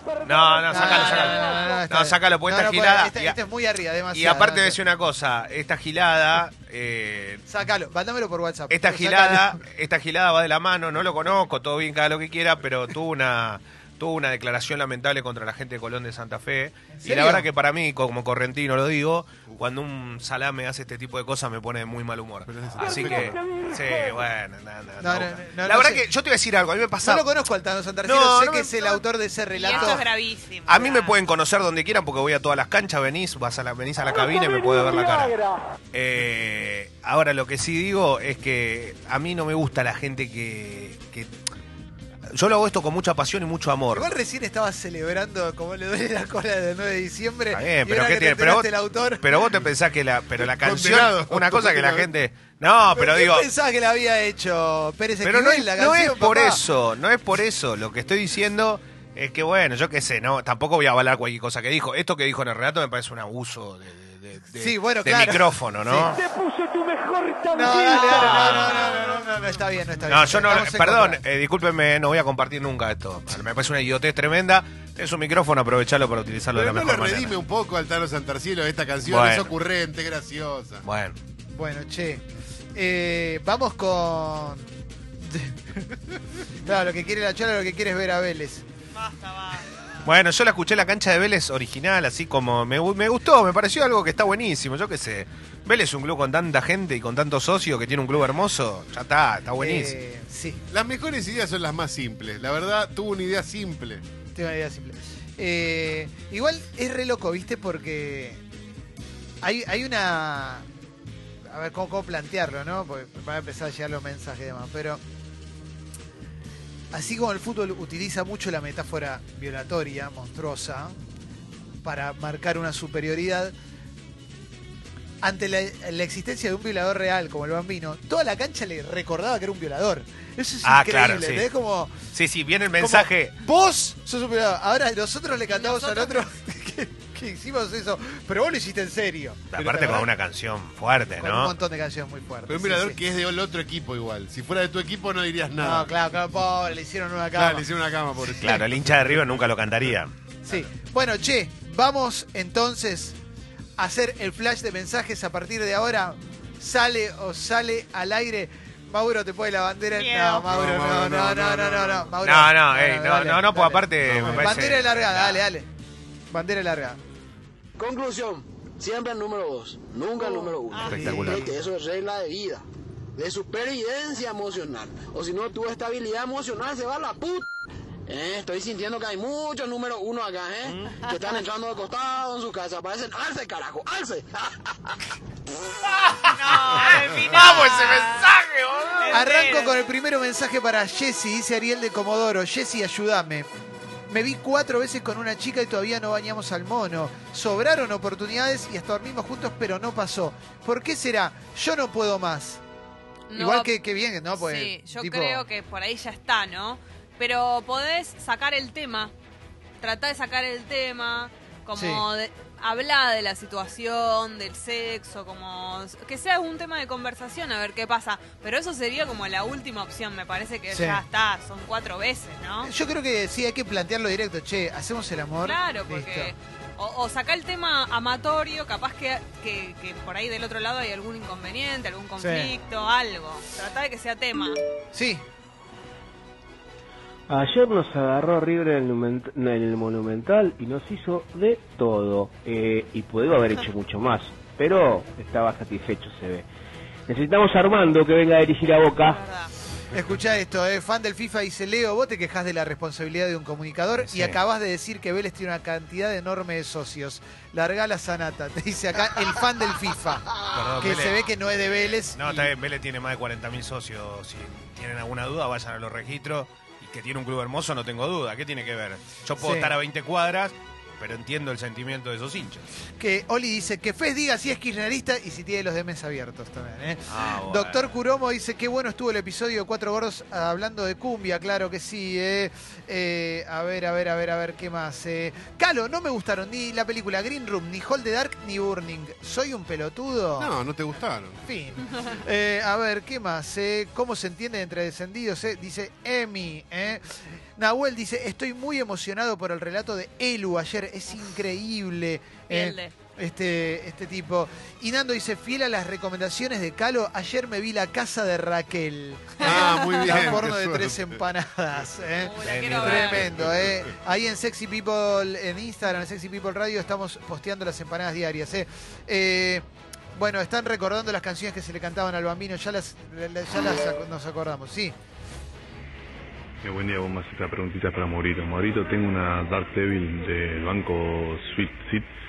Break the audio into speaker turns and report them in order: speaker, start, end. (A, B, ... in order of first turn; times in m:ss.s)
0:00.2-0:03.4 A
0:00.7-0:04.8 B
0:00.7-0:01.8 C
0:04.1-0:07.5 A
0:07.5-0:09.6 B
0:08.7-0:27.3 A
0:16.9-0:17.4 B
0:22.5-0:23.4 D
0:25.0-0:26.0 B
0:27.0-0:30.0 B
0:28.0-0:29.0 A
0:29.5-0:31.2 C
0:29.7-0:30.0 A
0:30.7-0:35.4 A
0:35.9-0:41.3 A
0:42.3-0:44.1 A
0:43.9-0:49.5 B
0:47.5-0:48.7 A
0:49.2-0:53.5 A
0:50.4-0:52.1 D
0:52.9-0:56.6 B
0:55.2-1:06.2 A
1:04.6-1:06.2 B
1:06.9-1:07.4 E
1:07.5-1:11.2 B
1:07.9-1:09.2 A
1:10.1-1:17.4 A
1:16.5-1:20.9 D
1:19.1-1:19.5 A
1:20.8-1:21.2 A
1:21.5-1:24.7 B
1:25.2-1:26.0 B
1:26.6-1:28.6 B
1:28.9-1:29.8 C
1:30.0-1:40.0 A
1:39.6-1:40.6 B
1:40.7-1:44.0 D
1:44.4-1:48.4 B
1:49.4-1:50.7 B
1:51.5-1:55.0 B
1:56.9-2:01.0 B
2:01.8-2:03.5 B
2:05.2-2:12.1 B
2:10.6-2:11.5 A
2:12.1-2:13.3 A
2:12.8-2:20.1 B
2:15.5-2:16.2 C
2:19.5-2:21.5 A
2:21.2-2:23.0 B
2:22.5-2:26.2 D
2:25.6-2:27.6 B
2:27.3-2:29.6 D
2:28.4-2:30.1 A
2:30.5-2:33.2 B
2:33.8-2:45.7 B
2:39.9-2:40.5 C
2:40.5-2:42.2 D
2:42.2-2:45.5 A
2:44.0-2:44.6 D
2:46.3-2:47.0 B
2:47.8-2:52.6 F
2:50.2-2:51.6 C
2:50.8-2:51.5 A
2:53.2-2:57.5 F
2:58.1-3:04.6 F
3:01.0-3:01.4 C
3:06.0-3:09.2 A
3:06.3-3:08.3 C
3:09.0-3:09.8 C
3:09.1-3:13.5 B
3:14.1-3:22.6 B
3:23.3-3:23.7 C
3:23.3-3:25.4 B
3:24.4-3:29.1 C
3:29.8-3:42.7 C
3:31.7-3:32.1 B
3:40.7-3:41.0 B
3:42.6-3:46.3 B
3:45.4-3:54.6 C
3:52.2-3:52.5 B
3:54.9-3:55.2 B
3:57.3-4:06.5 E
4:07.1-4:09.2 E
4:09.0-4:09.5 C
4:09.9-4:22.5 B
4:14.0-4:14.4 A
4:20.5-4:32.7 A
4:29.4-4:29.8 B
4:33.0-4:50.5 B
4:37.1-4:38.0 A
4:50.4-4:51.4 D
4:51.4-5:25.0 B
4:51.8-4:52.2 C
5:02.5-5:02.9 C
5:09.4-5:10.4 C
5:09.4-5:11.2 D
5:12.2-5:13.3 C
5:12.4-5:13.3 A
5:13.4-5:13.8 D
5:26.6-5:32.1 G